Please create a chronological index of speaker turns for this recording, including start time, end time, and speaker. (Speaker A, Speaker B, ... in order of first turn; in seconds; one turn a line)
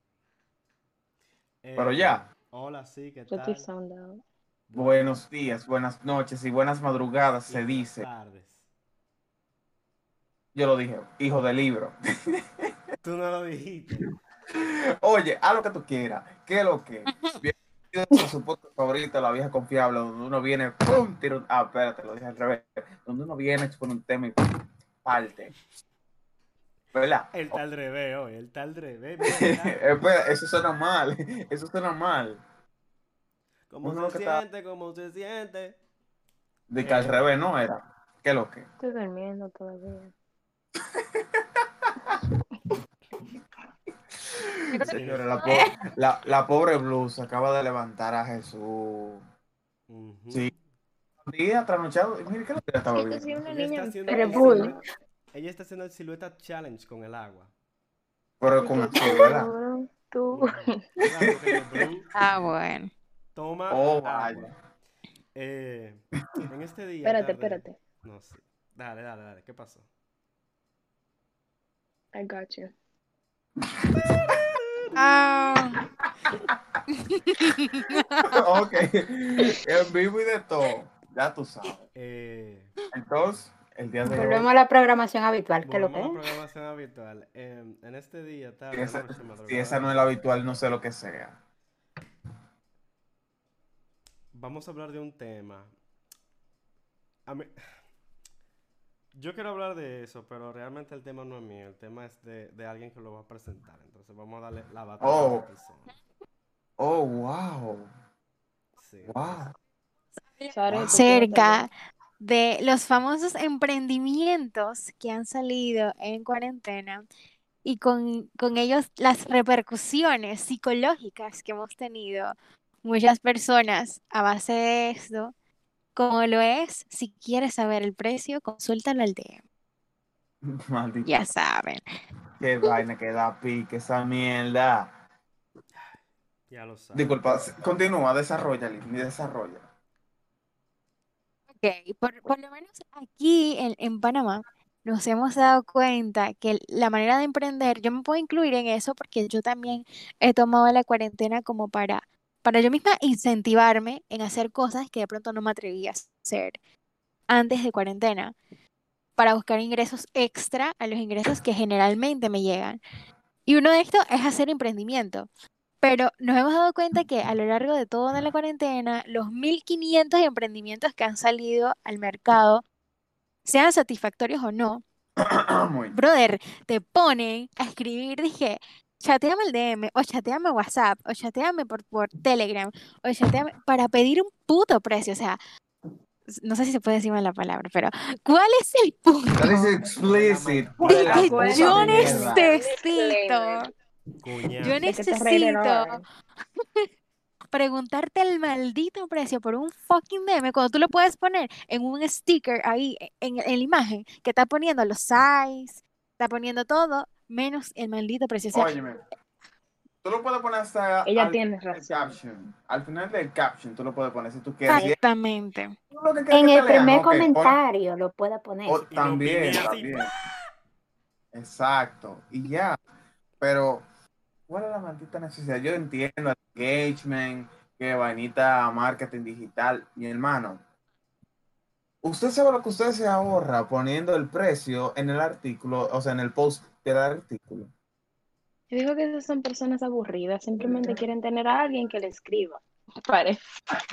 Speaker A: 1.6-3.7
Speaker B: 1.8-2.2
Speaker C: 3.3-4.2
Speaker A: 4.7-5.0
Speaker B: 4.8-8.1
Speaker A: 7.5-8.6
Speaker B: 10.6-12.7
Speaker A: 13.0-14.1
Speaker B: 14.0-24.5
Speaker B: 25.0-25.6
Speaker B: 26.9-27.6
Speaker A: 27.3-29.8
Speaker B: 29.3-32.4
Speaker A: 33.7-35.8
Speaker B: 33.8-34.4
Speaker B: 36.7-38.7
Speaker A: 36.8-37.2
Speaker C: 38.8-40.1
Speaker B: 41.0-42.2
Speaker B: 44.2-49.2
Speaker D: 44.7-45.7
Speaker A: 44.8-45.4
Speaker A: 49.9-50.5
Speaker B: 51.2-53.4
Speaker C: 52.9-54.8
Speaker A: 53.4-54.8
Speaker E: 54.1-54.8
Speaker A: 55.3-57.5
Speaker B: 58.4-59.5
Speaker C: 58.6-60.8
Speaker A: 60.3-62.1
Speaker D: 62.1-62.9
Speaker A: 63.3-64.5
Speaker B: 63.7-64.6
Speaker A: 65.3-69.9
Speaker C: 67.0-67.8
Speaker C: 72.1-72.7
Speaker B: 73.8-74.4
Speaker D: 75.0-75.8
Speaker B: 76.3-76.6
Speaker D: 77.0-78.4
Speaker B: 78.2-81.9
Speaker A: 82.0-82.7
Speaker B: 82.9-84.5
Speaker E: 84.1-86.2
Speaker A: 85.6-90.1
Speaker B: 88.7-91.4
Speaker A: 94.3-95.7
Speaker A: 97.3-97.5
Speaker A: 99.1-105.9
Speaker B: 105.0-105.5
Speaker B: 106.8-107.9
Speaker A: 108.8-109.5
Speaker B: 109.0-109.5
Speaker D: 110.4-117.1
Speaker C: 110.5-111.7
Speaker B: 110.7-111.0
Speaker D: 117.6-125.3
Speaker D: 126.0-129.4
Speaker B: 130.4-131.1
Speaker D: 131.0-131.8
Speaker B: 132.4-135.0
Speaker A: 136.5-137.5
Speaker B: 136.9-139.7
Speaker D: 141.6-156.6
Speaker D: 157.3-158.3
Speaker D: 159.2-162.8
Speaker D: 163.4-165.3
Speaker D: 165.8-172.6
Speaker D: 173.4-174.8
Speaker B: 175.2-175.9
Speaker D: 175.9-185.4
Speaker D: 186.3-189.6
Speaker B: 189.3-192.5
Speaker A: 189.9-192.4
Speaker D: 190.9-193.7
Speaker C: 191.1-193.7
Speaker A: 194.2-194.9
Speaker D: 194.6-196.0
Speaker C: 194.8-196.0
Speaker D: 196.6-196.8
Speaker D: 197.5-208.8
Speaker B: 208.5-209.0
Speaker B: 210.0-214.9
Speaker C: 211.1-212.2
Speaker D: 214.7-215.7
Speaker B: 215.9-217.6
Speaker E: 216.3-218.8
Speaker B: 218.7-220.1
Speaker A: 218.9-220.1
Speaker B: 221.3-222.8
Speaker B: 223.4-223.8
Speaker B: 224.5-230.6
Speaker B: 232.0-237.7
Speaker C: 238.7-243.4